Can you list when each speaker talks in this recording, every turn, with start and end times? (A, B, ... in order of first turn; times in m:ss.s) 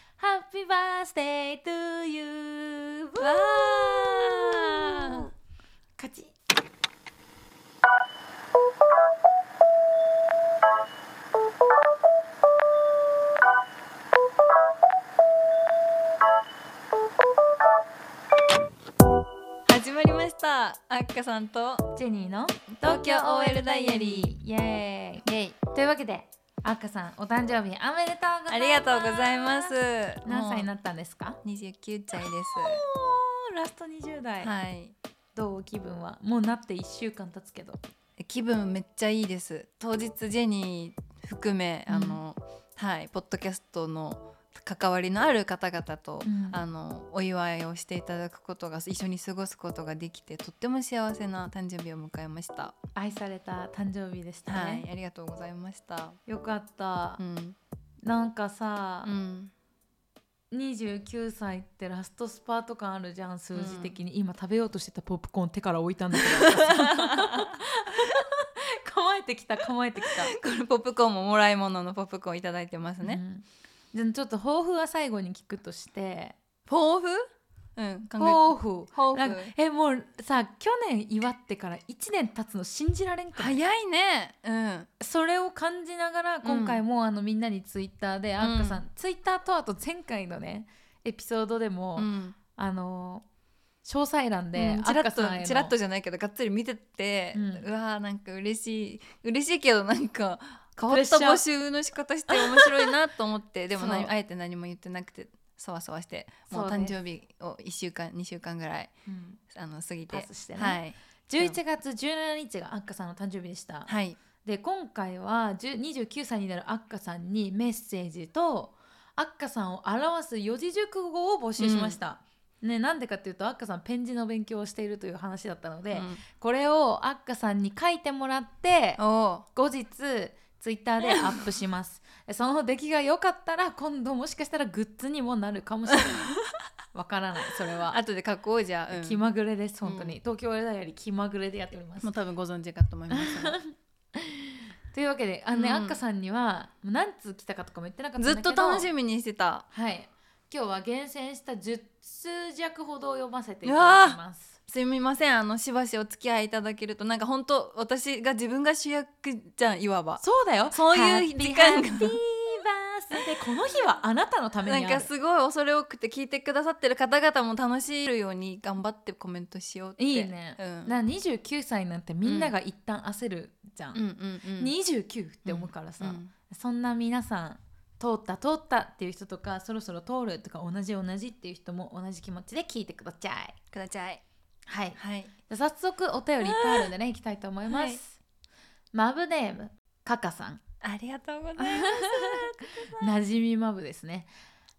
0:00.2-0:05.2 A
0:03.2-0:05.3 B
0:06.0-0:06.3 A
0:19.6-0:21.9 B
0:21.9-0:31.4 A
0:22.8-0:24.3 B
0:25.2-0:25.6 B
0:28.5-0:30.7 B
0:31.4-0:32.8 B
0:32.5-0:34.5 A
0:34.4-0:34.9 B
0:35.3-0:37.8 A
0:38.2-0:52.8 B
0:41.9-0:42.2 A
0:46.2-0:46.6 A
0:52.9-0:54.8 A
0:54.5-0:56.2 B
0:56.3-0:57.2 A
0:57.2-0:57.6 B
0:58.0-0:59.1 A
0:59.0-0:59.5 B
1:00.5-1:10.3 A
1:03.5-1:03.9 B
1:06.3-1:07.5 B
1:10.0-1:13.2 B
1:13.0-1:16.4 A
1:16.7-1:19.5 B
1:18.2-1:23.6 A
1:23.4-1:24.9 B
1:25.0-1:33.2 A
1:26.4-1:26.8 B
1:28.4-1:28.8 B
1:32.0-1:32.4 B
1:33.8-1:35.7 A
1:34.5-1:48.9 B
1:37.3-1:37.6 A
1:40.8-1:41.4 A
1:42.3-1:42.9 A
1:43.8-1:44.1 A
1:46.5-1:46.9 A
1:49.0-1:49.4 A
1:49.5-1:51.6 B
1:50.1-2:09.0 A
1:53.9-1:54.2 B
2:01.6-2:02.0 B
2:05.9-2:06.2 B
2:09.0-2:09.4 B
2:09.5-2:16.3 A
2:11.0-2:11.4 B
2:16.9-2:18.0 A
2:17.9-2:19.2 B
2:18.9-2:22.1 A
2:19.8-2:20.2 B
2:22.0-2:23.6 B
2:23.1-2:28.9 A
2:25.5-2:26.0 B
2:28.2-2:29.6 B
2:29.7-2:34.6 A
2:33.6-2:42.2 B
2:40.2-2:45.1 A
2:44.6-2:50.9 B
2:50.0-2:54.0 A
2:52.2-2:52.5 B
2:53.9-2:54.7 B
2:54.6-3:03.6 A
2:55.4-2:56.3 B
3:03.7-3:04.2 B
3:04.7-3:08.2 A
3:05.0-3:05.3 B
3:06.4-3:06.9 B
3:07.7-3:08.0 B
3:08.9-3:10.6 A
3:10.8-3:13.0 B
3:11.6-3:14.3 A